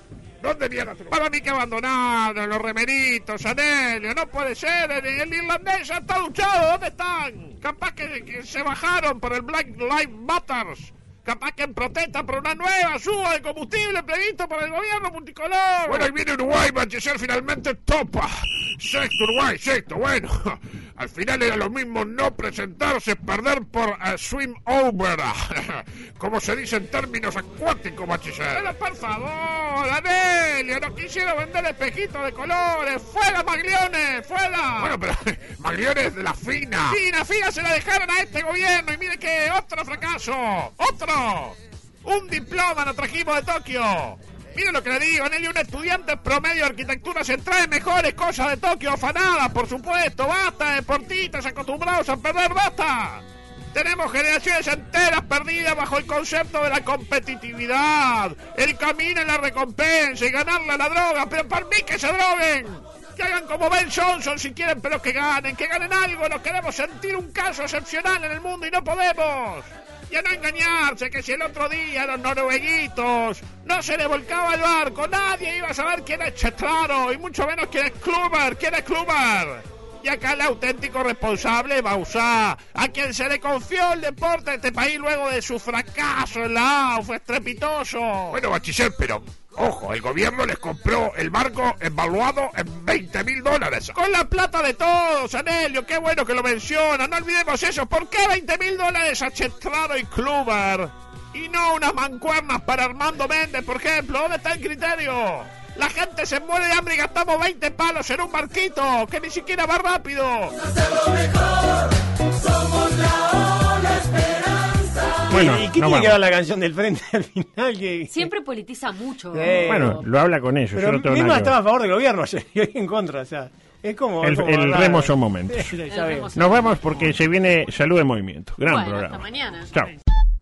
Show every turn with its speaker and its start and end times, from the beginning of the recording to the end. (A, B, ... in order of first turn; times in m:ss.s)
0:00.4-0:01.2 A
0:01.1-0:16.1 B
0:15.8-0:28.7 A
0:28.5-0:35.0 B
0:34.8-0:37.0 A
0:36.9-1:28.4 B
1:28.3-1:34.0 A
1:33.9-1:50.6 B
1:55.3-1:58.3 C
1:55.3-1:56.2 D
1:58.1-2:00.0 E
1:59.3-2:00.0 C
1:59.7-2:01.5 D
2:00.7-2:06.3 C
2:04.2-2:05.7 D
2:05.9-2:07.1 E
2:06.3-2:09.9 D
2:08.6-2:09.7 E